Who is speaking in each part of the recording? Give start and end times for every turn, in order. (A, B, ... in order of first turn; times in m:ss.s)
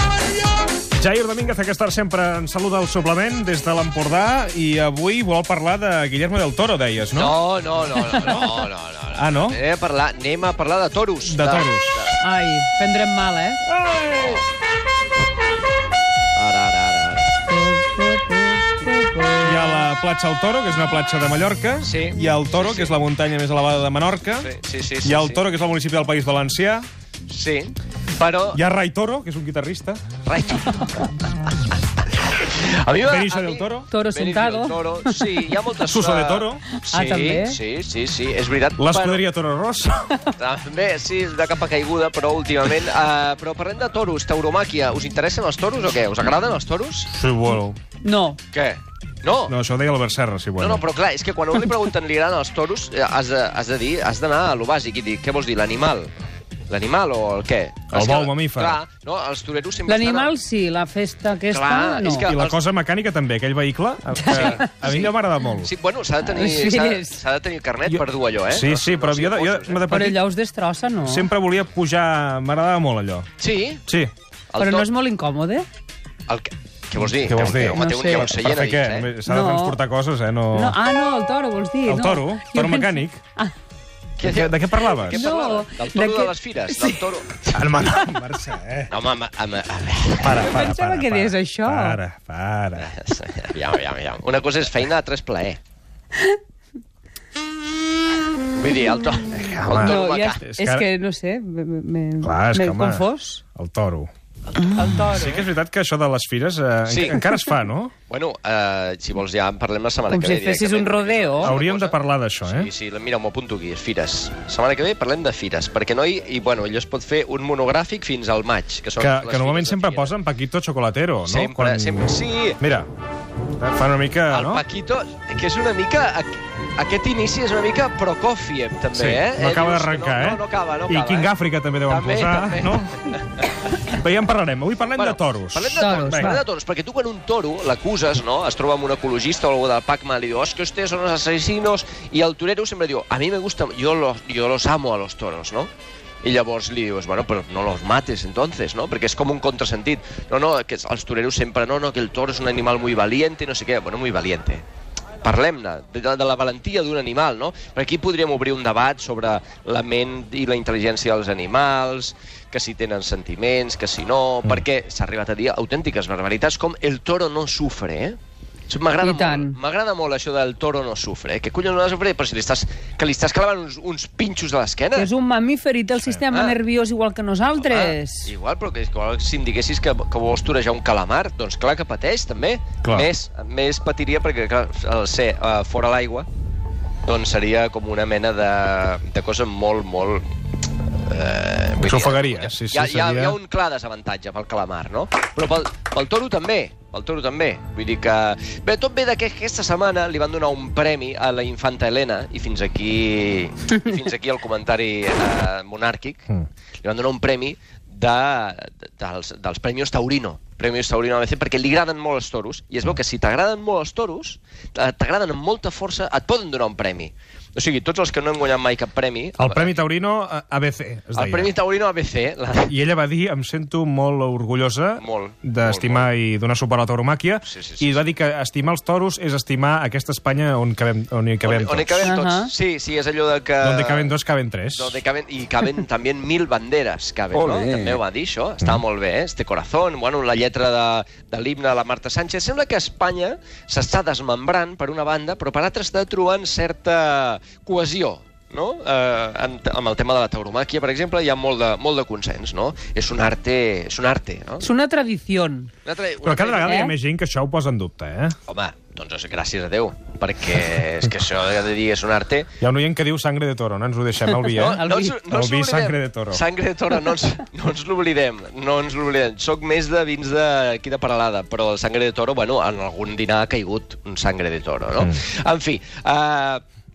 0:01.0-0:07.4 A
0:07.1-0:12.2 B
0:09.1-0:09.6 A
0:11.2-0:12.0 A
0:12.2-0:13.6 C
0:13.7-0:14.4 A
0:14.1-0:14.4 B
0:16.3-0:17.4 B
0:17.6-0:19.8 C
0:19.4-0:24.5 A
0:21.8-0:22.9 B
0:24.4-0:25.4 B
0:25.0-0:26.8 A
0:27.3-0:28.6 B
0:28.5-0:30.0 A
0:30.2-0:31.0 B
0:32.2-0:39.2 B
0:33.0-0:33.9 A
0:33.9-0:35.4 C
0:35.9-0:36.6 A
0:36.7-0:37.6 C
0:38.8-0:40.1 A
0:40.4-0:47.1 B
0:47.1-0:47.8 A
0:48.0-0:48.4 C
0:48.5-0:49.5 B
0:49.5-0:50.8 A
0:50.6-0:56.1 B
0:56.7-1:00.3 B
0:57.9-0:58.8 A
0:59.9-1:02.3 C
1:01.5-1:02.6 B
1:02.3-1:05.7 A
1:04.3-1:09.9 B
1:04.3-1:04.7 C
1:06.2-1:07.2 C
1:07.9-1:10.2 A
1:09.9-1:11.3 C
1:11.0-1:13.3 A
1:13.4-1:13.8 B
1:13.8-1:14.1 A
1:14.5-1:14.9 B
1:14.6-1:15.7 C
1:16.3-1:19.1 B
1:17.1-1:20.8 A
1:17.6-1:18.3 C
1:19.2-1:19.8 C
1:20.5-1:23.5 C
1:21.8-1:23.2 A
1:24.2-1:27.6 B
1:24.2-1:25.3 A
1:25.0-1:27.1 C
1:27.5-1:28.9 A
1:28.9-1:30.4 B
1:30.2-1:32.9 A
1:30.4-1:32.0 C
1:32.8-1:35.6 B
1:38.5-1:40.4 B
1:39.3-1:40.8 A
1:39.7-1:43.4 C
1:42.2-1:44.1 A
1:44.6-1:45.4 C
1:45.0-1:47.9 A
1:46.9-1:47.2 B
1:48.1-2:00.1 B
1:50.1-1:51.6 C
1:51.4-1:52.7 A
1:59.0-2:02.9 A
2:01.2-2:02.6 B
2:03.6-2:04.6 A
2:04.3-2:11.3 B
2:08.9-2:13.0 A
2:11.8-2:13.2 B
2:13.9-2:16.4 A
2:14.9-2:25.7 B
2:15.8-2:16.4 C
2:26.2-2:34.6 B
2:35.2-2:48.2 B
2:48.7-2:55.1 B
2:49.0-2:49.6 C
2:55.0-2:58.3 C
2:56.3-2:56.6 B
2:57.6-3:06.3 B
3:02.8-3:03.1 A
3:07.0-3:10.2 B
3:10.8-3:26.3 B
3:11.8-3:13.4 A
3:26.8-3:39.8 B
3:39.4-3:41.5 A
3:41.1-3:42.7 B
3:42.7-3:52.0 A
3:45.0-3:46.1 B
3:47.4-3:48.0 B
3:51.4-3:54.2 B
3:52.0-3:52.5 C
3:53.6-3:55.0 A
3:54.7-4:14.7 B
4:14.6-4:15.7 C
4:15.8-4:16.8 B
4:16.2-4:18.3 A
4:16.6-4:16.9 C
4:18.4-4:22.5 B
4:22.6-4:26.4 A
4:24.3-4:25.2 C
4:24.5-4:36.6 B